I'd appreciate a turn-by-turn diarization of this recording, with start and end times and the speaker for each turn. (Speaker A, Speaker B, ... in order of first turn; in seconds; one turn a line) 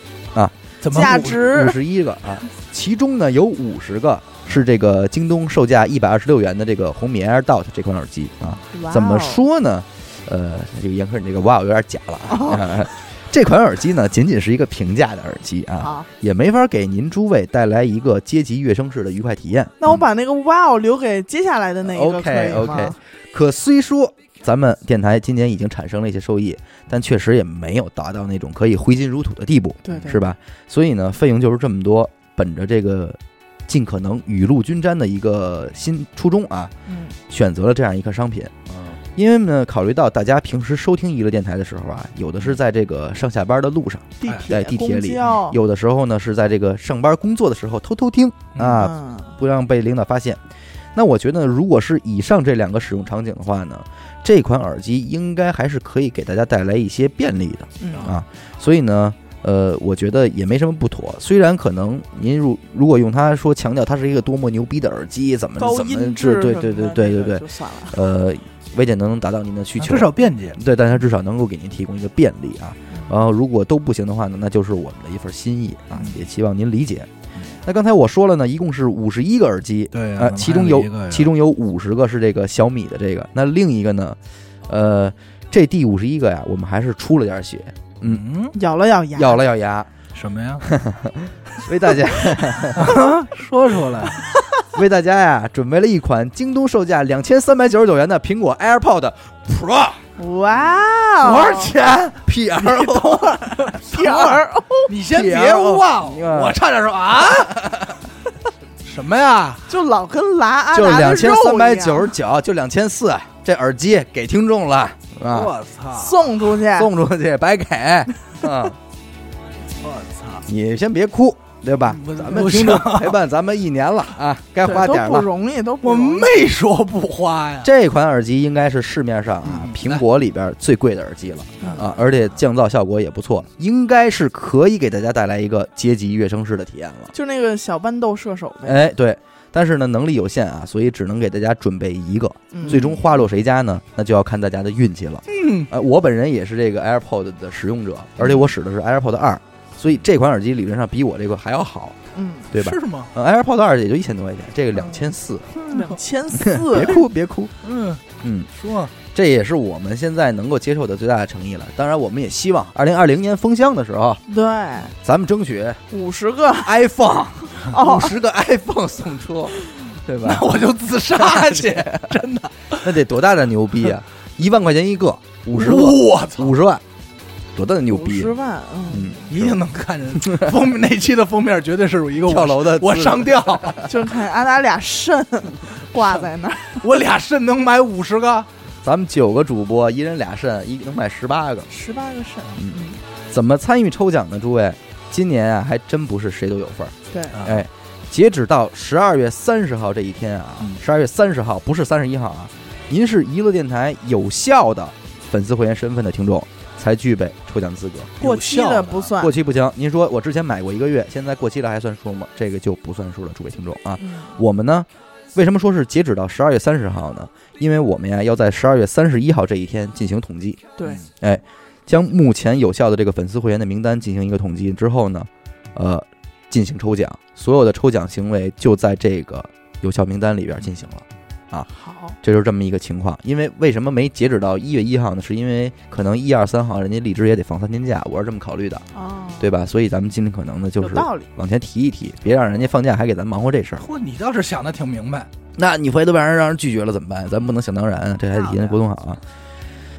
Speaker A: 0.3-19.9
Speaker B: 0.8-1.4
Speaker C: 0.9-1.8
Speaker C: 8.7-9.4
Speaker C: 12.3-12.7
Speaker C: 15.8-16.1
Speaker C: 19.8-23.0
Speaker A: 21.8-36.7
Speaker C: 29.9-30.2
Speaker B: 29.9-30.2
Speaker C: 36.9-37.1
Speaker A: 37.3-38.5
Speaker B: 38.7-39.0
Speaker A: 39.1-50.4
Speaker C: 44.2-45.6
Speaker B: 44.2-44.5
Speaker B: 48.5-48.9
Speaker C: 48.8-49.3
Speaker A: 50.9-77.1
Speaker C: 57.8-58.1
Speaker C: 65.6-68.0
Speaker B: 69.8-70.6
Speaker A: 77.6-88.2
Speaker B: 79.9-81.3
Speaker B: 88.0-88.5
Speaker C: 88.5-89.4
Speaker A: 89.1-89.9
Speaker B: 90.1-90.7
Speaker A: 90.6-93.0
Speaker B: 92.7-94.3
Speaker A: 94.7-100.0
Speaker C: 100.2-101.7
Speaker B: 101.2-107.9
Speaker A: 102.2-103.4
Speaker C: 103.6-104.9
Speaker A: 105.1-106.6
Speaker B: 108.8-109.7
Speaker C: 109.7-112.1
Speaker A: 110.7-115.5
Speaker B: 115.3-116.3
Speaker C: 115.9-116.9
Speaker A: 116.4-118.8
Speaker B: 119.8-120.4
Speaker A: 120.5-125.3
Speaker B: 121.8-123.2
Speaker C: 124.6-126.3
Speaker B: 125.8-127.7
Speaker A: 127.6-137.1
Speaker B: 129.4-130.0
Speaker C: 131.6-131.9
Speaker B: 131.6-132.1
Speaker C: 137.1-138.8
Speaker A: 138.6-152.0
Speaker C: 142.5-143.0
Speaker B: 145.3-145.7
Speaker C: 148.2-148.5
Speaker C: 152.1-152.5
Speaker A: 152.5-155.6
Speaker B: 152.5-153.1
Speaker C: 155.6-157.0
Speaker A: 156.4-157.5
Speaker B: 157.6-158.0
Speaker A: 158.2-158.5
Speaker B: 158.6-158.9
Speaker A: 159.0-164.2
Speaker C: 164.3-164.9
Speaker A: 165.0-165.8
Speaker C: 165.9-166.7
Speaker A: 166.6-170.5
Speaker C: 167.6-168.1
Speaker B: 170.2-172.9
Speaker A: 171.2-172.1
Speaker A: 172.8-176.8
Speaker B: 175.5-176.6
Speaker A: 177.5-178.3
Speaker C: 177.9-179.2
Speaker A: 178.9-179.6
Speaker B: 179.3-183.8
Speaker A: 182.2-183.8
Speaker C: 183.8-186.9
Speaker B: 186.8-188.5
Speaker A: 188.8-191.7
Speaker C: 191.7-193.0
Speaker A: 192.5-208.1
Speaker C: 197.1-197.4
Speaker B: 197.3-197.6
Speaker B: 208.2-209.1
Speaker C: 208.2-209.3
Speaker A: 209.2-220.6
Speaker C: 214.0-214.4
Speaker C: 220.8-221.0
Speaker A: 221.2-231.7
Speaker C: 231.7-232.2
Speaker A: 232.2-238.8
Speaker C: 238.9-239.5
Speaker A: 239.4-243.9
Speaker C: 240.8-241.3
Speaker B: 243.8-245.3
Speaker A: 245.5-249.2
Speaker C: 248.5-248.8